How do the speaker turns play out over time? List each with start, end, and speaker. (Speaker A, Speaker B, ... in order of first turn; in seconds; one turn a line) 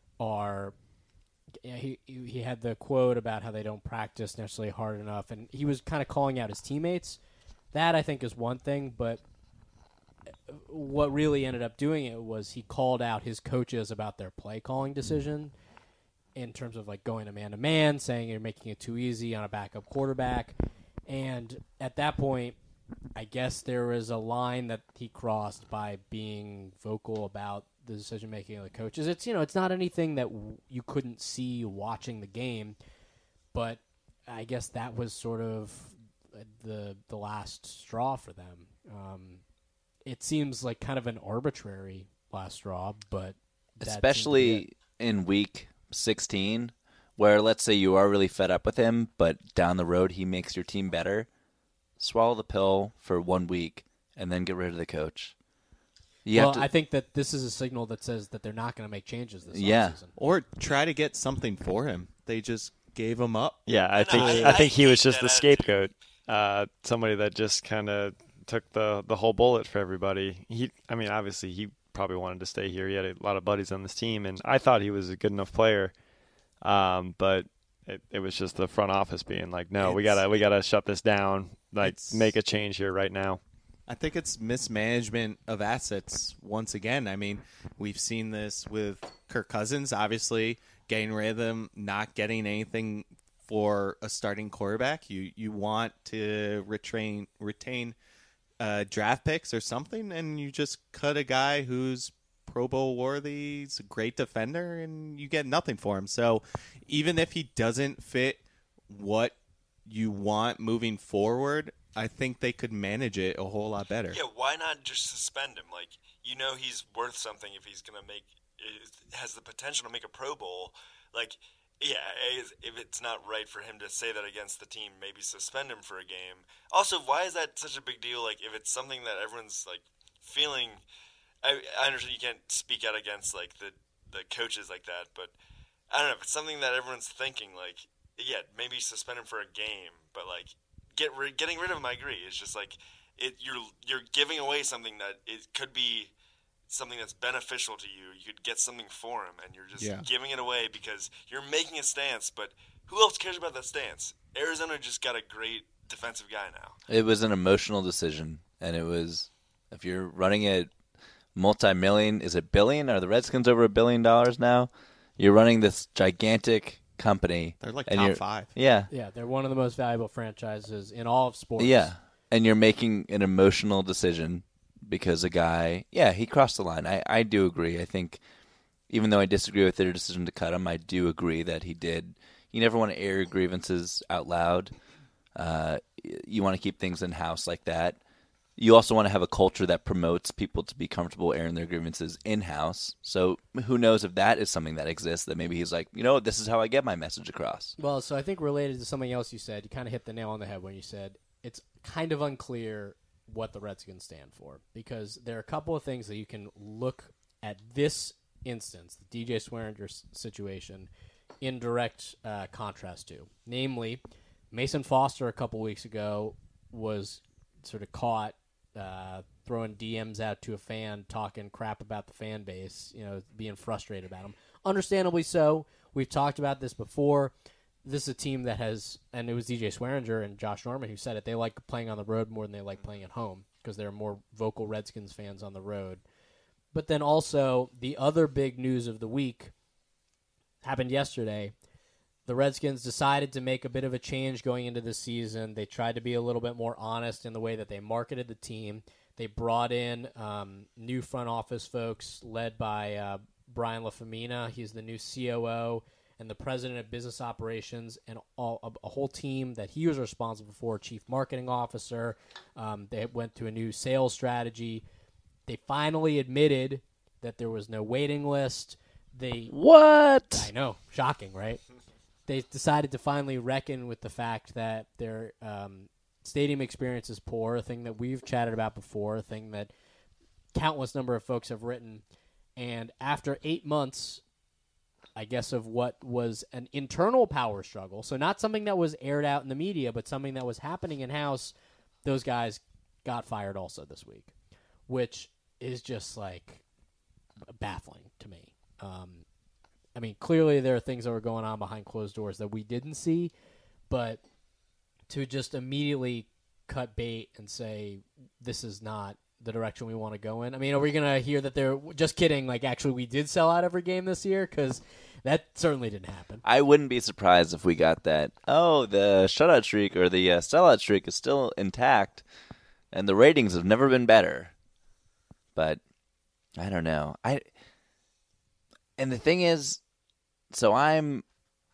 Speaker A: 0.2-0.8
Speaker A: 1.6-7.2
Speaker A: 7.7-9.2
Speaker A: 10.5-15.5
Speaker A: 16.4-20.6
Speaker A: 21.1-22.6
Speaker A: 23.2-32.8
Speaker A: 33.5-39.4
Speaker A: 40.1-44.6
Speaker B: 43.8-51.3
Speaker B: 52.0-55.3
Speaker B: 56.2-56.7
Speaker A: 56.3-60.1
Speaker B: 59.5-60.0
Speaker C: 60.1-64.5
Speaker D: 63.7-75.9
Speaker E: 63.9-65.8
Speaker D: 76.6-83.4
Speaker C: 79.8-80.2
Speaker C: 81.8-82.3
Speaker C: 83.9-98.0
Speaker C: 98.6-114.2
Speaker E: 114.1-130.8
Speaker E: 131.4-135.3
Speaker E: 135.9-146.1
Speaker E: 146.7-156.8
Speaker C: 149.8-150.1
Speaker B: 156.9-160.7
Speaker B: 161.3-168.9
Speaker C: 167.6-168.5
Speaker A: 168.9-171.9
Speaker B: 171.6-178.2
Speaker B: 178.9-184.7
Speaker B: 185.3-188.0
Speaker B: 188.6-197.8
Speaker A: 197.8-210.9
Speaker A: 211.4-214.0
Speaker A: 214.5-227.3
Speaker A: 227.8-236.0
Speaker A: 236.7-239.5
Speaker A: 240.6-241.5
Speaker A: 242.3-264.8
Speaker A: 265.5-269.6
Speaker B: 269.5-270.5
Speaker A: 270.3-271.6
Speaker A: 272.3-279.7
Speaker A: 280.5-282.0
Speaker A: 282.6-284.2
Speaker A: 285.2-291.5
Speaker A: 292.1-294.3
Speaker A: 294.9-296.6
Speaker A: 297.5-299.2
Speaker A: 300.0-303.3
Speaker A: 303.9-304.2
Speaker A: 305.1-316.4
Speaker B: 316.4-322.2
Speaker B: 322.9-324.5
Speaker B: 325.6-325.8
Speaker B: 326.6-327.5
Speaker B: 329.0-329.8
Speaker B: 330.5-331.2